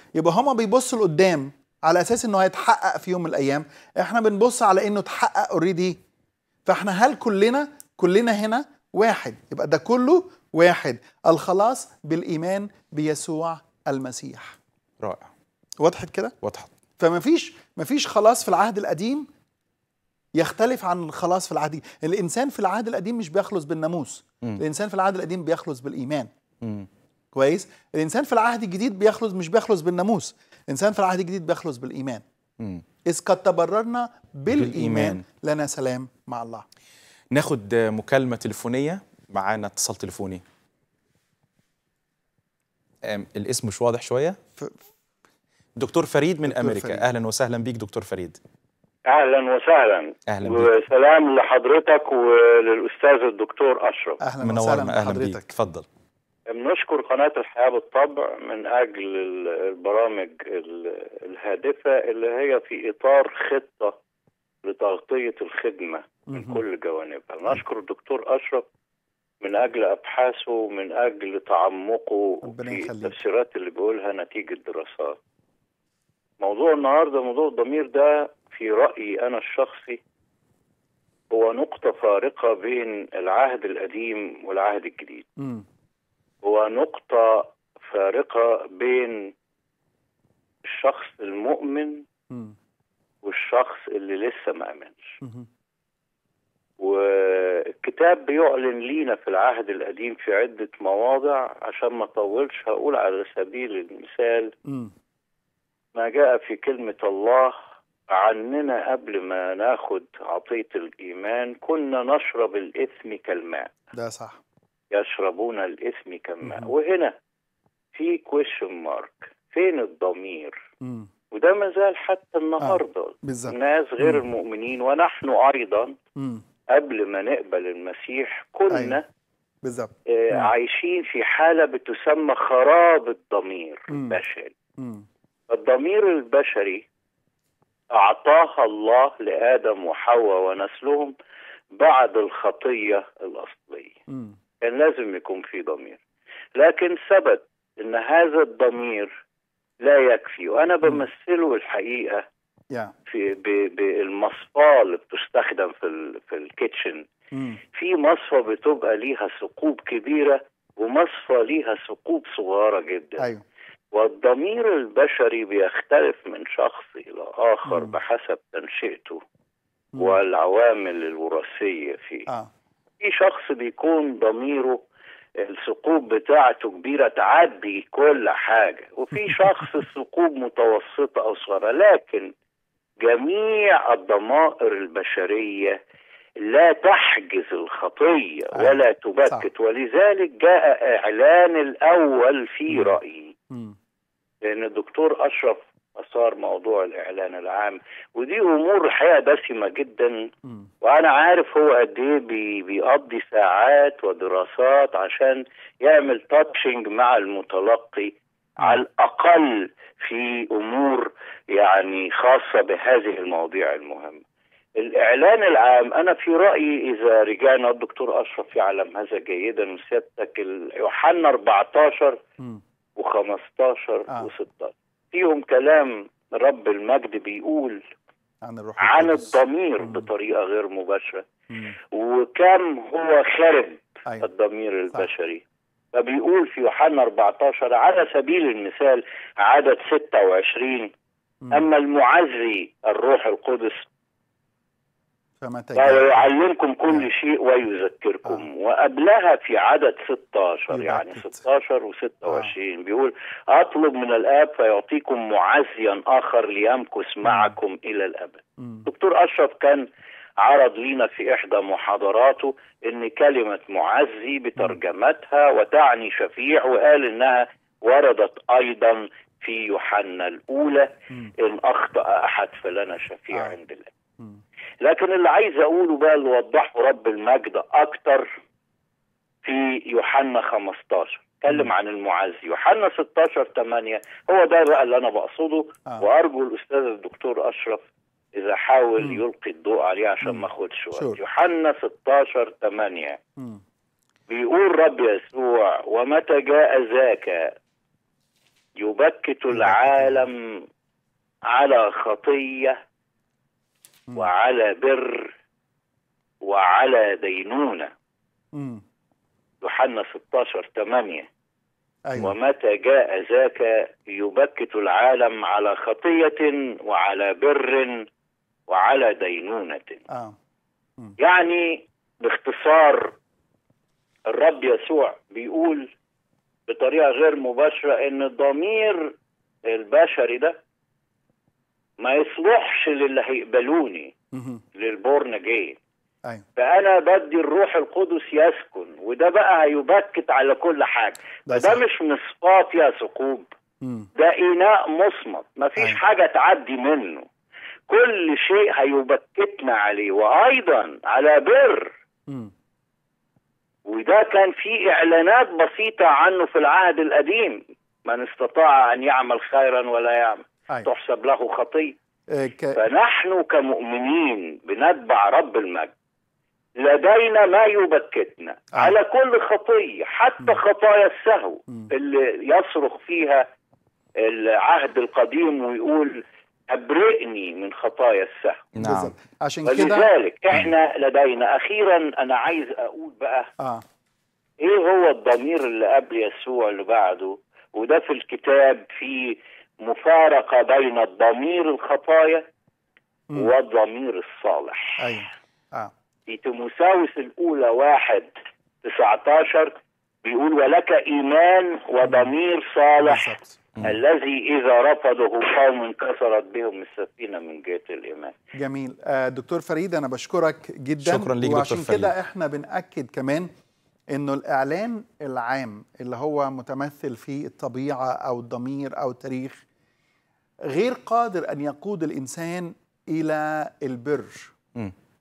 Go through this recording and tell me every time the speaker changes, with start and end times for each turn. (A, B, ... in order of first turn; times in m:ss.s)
0:00.1-0:06.0 A
0:06.6-0:14.6 A
0:15.0-0:15.3 B
0:15.8-0:16.3 A
0:16.4-0:16.7 B
0:17.0-0:19.3 A
0:20.3-0:26.3 A
0:26.6-0:26.9 B
0:27.3-0:32.2 A
0:32.6-0:32.8 B
0:33.0-0:36.6 A
0:34.5-0:35.2 B
0:37.3-0:40.4 B
0:43.0-0:44.4 B
0:45.8-0:48.4 B
0:46.5-0:47.0 A
0:49.1-0:54.2 C
0:50.3-0:50.7 B
0:54.2-0:55.4 A
0:54.4-0:55.8 B
0:56.5-1:04.0 C
1:04.6-1:08.6 C
1:06.3-1:06.6 A
1:09.4-1:15.2 C
1:12.4-1:13.2 A
1:16.4-1:20.0 C
1:21.3-1:25.3 C
1:25.4-1:25.6 A
1:26.4-1:29.3 C
1:30.7-1:32.0 C
1:33.2-1:35.1 C
1:35.2-1:35.5 A
1:36.8-1:44.5 C
1:44.6-1:44.9 A
1:45.9-1:47.6 C
1:48.1-1:53.7 C
1:53.9-1:54.4 A
1:54.9-1:57.2 C
1:56.4-1:56.7 A
1:57.9-2:00.6 C
2:00.8-2:01.1 A
2:01.3-2:06.0 C
2:02.6-2:04.2 A
2:06.2-2:06.4 A
2:06.7-2:09.0 C
2:08.7-2:09.0 A
2:09.6-2:10.5 A
2:10.1-2:14.5 C
2:13.9-2:14.2 A
2:14.8-2:15.0 A
2:15.5-2:16.8 C
2:17.9-2:21.1 C
2:21.7-2:24.0 C
2:24.1-2:24.4 A
2:24.6-2:26.0 C
2:26.6-2:29.1 C
2:29.8-2:32.2 C
2:33.1-2:37.0 C
2:37.3-2:37.6 A
2:37.7-2:43.3 C
2:43.9-2:49.2 C
2:47.7-2:48.0 A
2:49.9-2:50.2 A
2:50.0-2:52.3 C
2:53.0-2:54.8 C
2:55.4-3:02.3 C
2:59.2-2:59.6 A
3:03.0-3:05.8 C
3:06.4-3:13.3 C
3:08.5-3:09.5 A
3:12.7-3:13.0 A
3:13.5-3:13.8 A
3:14.4-3:20.3 C
3:20.8-3:34.2 C
3:34.8-3:42.2 C
3:43.0-3:47.8 C
3:48.4-3:50.1 A
3:48.8-3:51.2 C
3:51.9-3:55.4 C
3:55.9-4:00.9 C
4:01.5-4:03.8 C
4:05.4-4:06.3 A
4:05.8-4:19.8 C
4:10.7-4:11.4 A
4:12.3-4:12.5 A
4:17.2-4:17.5 A
4:18.6-4:18.9 A
4:20.4-4:33.9 C
4:34.8-4:38.3 C
4:39.4-4:53.2 C
4:50.2-4:51.2 A
4:54.3-4:57.5 C
4:58.8-5:00.6 C
4:59.5-5:00.3 A
5:01.5-5:02.8 C
5:04.2-5:05.3 C
5:06.4-5:07.9 C
5:08.5-5:08.8 A
5:09.6-5:11.3 C
5:12.1-5:12.3 A
5:12.2-5:18.0 C
5:18.7-5:20.0 C
5:20.1-5:20.3 A
5:21.2-5:23.1 C
5:24.3-5:25.9 C
5:26.7-5:29.1 C
5:29.7-5:30.6 C
5:32.0-5:34.1 C
5:34.3-5:34.6 A
5:34.7-5:35.8 C
5:36.6-5:43.5 C
5:41.5-5:41.8 A
5:43.8-5:44.1 A
5:44.1-5:47.3 C
5:47.9-5:51.9 C
5:53.9-6:02.0 C
6:02.3-6:02.8 A
6:02.7-6:05.9 C
6:06.8-6:13.4 C
6:14.2-6:18.7 C
6:18.8-6:19.1 B
6:18.8-6:20.1 A
6:19.7-6:23.5 C
6:24.6-6:32.4 C
6:33.4-6:35.2 C
6:35.0-6:35.9 A
6:36.3-6:38.3 C
6:38.8-6:48.3 C
6:42.0-6:42.3 A
6:43.0-6:43.6 A
6:48.5-6:53.5 A
6:51.0-6:52.1 B
6:54.1-6:59.6 A
7:00.7-7:04.5 A